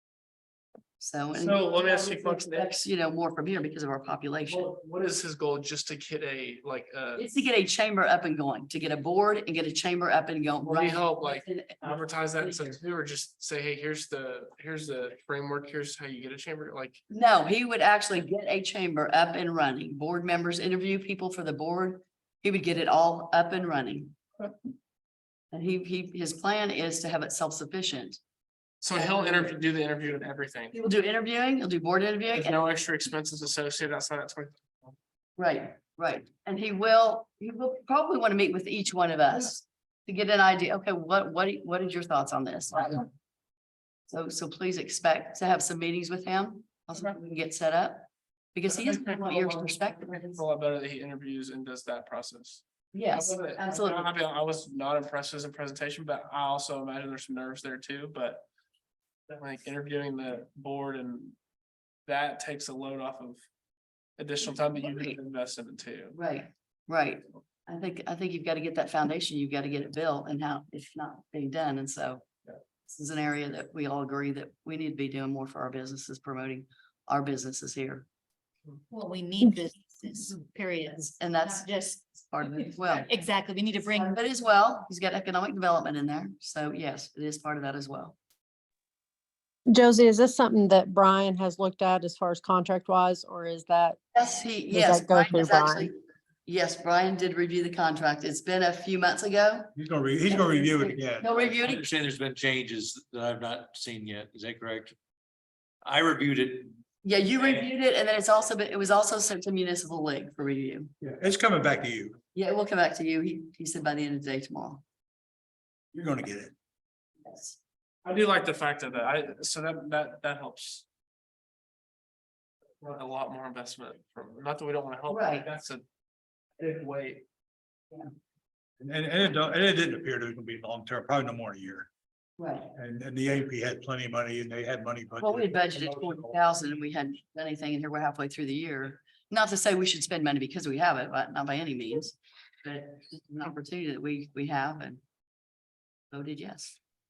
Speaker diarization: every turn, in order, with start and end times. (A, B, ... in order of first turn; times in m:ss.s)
0:01.0-0:04.7 A
0:01.3-0:02.7 B
0:04.4-0:07.2 B
0:07.2-0:12.7 A
0:10.6-0:17.0 B
0:17.1-0:24.4 A
0:25.5-0:28.2 A
0:28.8-0:30.7 B
0:28.9-0:29.5 A
0:30.8-0:32.6 A
0:32.3-0:34.9 B
0:35.4-0:43.1 A
0:44.1-0:50.4 A
0:48.7-0:58.4 B
0:52.9-0:54.1 A
0:59.3-1:01.4 B
1:02.0-1:03.4 B
1:04.2-1:06.2 B
1:04.8-1:05.2 A
1:06.1-1:12.2 A
1:12.9-1:18.1 A
1:18.9-1:22.0 C
1:21.2-1:23.1 A
1:22.8-1:24.2 C
1:23.9-1:28.2 A
1:29.7-1:34.0 D
1:34.1-1:35.9 A
1:34.7-1:35.9 D
1:36.4-1:39.7 A
1:39.7-1:41.3 E
1:40.3-1:41.9 A
1:41.3-1:45.0 F
1:45.8-1:46.8 F
1:47.0-1:50.9 A
1:47.4-1:47.6 F
1:51.0-1:52.2 E
1:52.3-1:54.8 A
1:55.9-1:56.5 E
1:57.2-1:57.6 A
1:58.0-2:00.8 B
2:02.8-2:05.8 B
2:05.1-2:05.5 A
2:06.6-2:07.2 B
2:08.8-2:11.9 E
2:12.4-2:12.7 A
2:12.7-2:16.3 E
2:15.2-2:25.0 A
2:26.1-2:26.8 A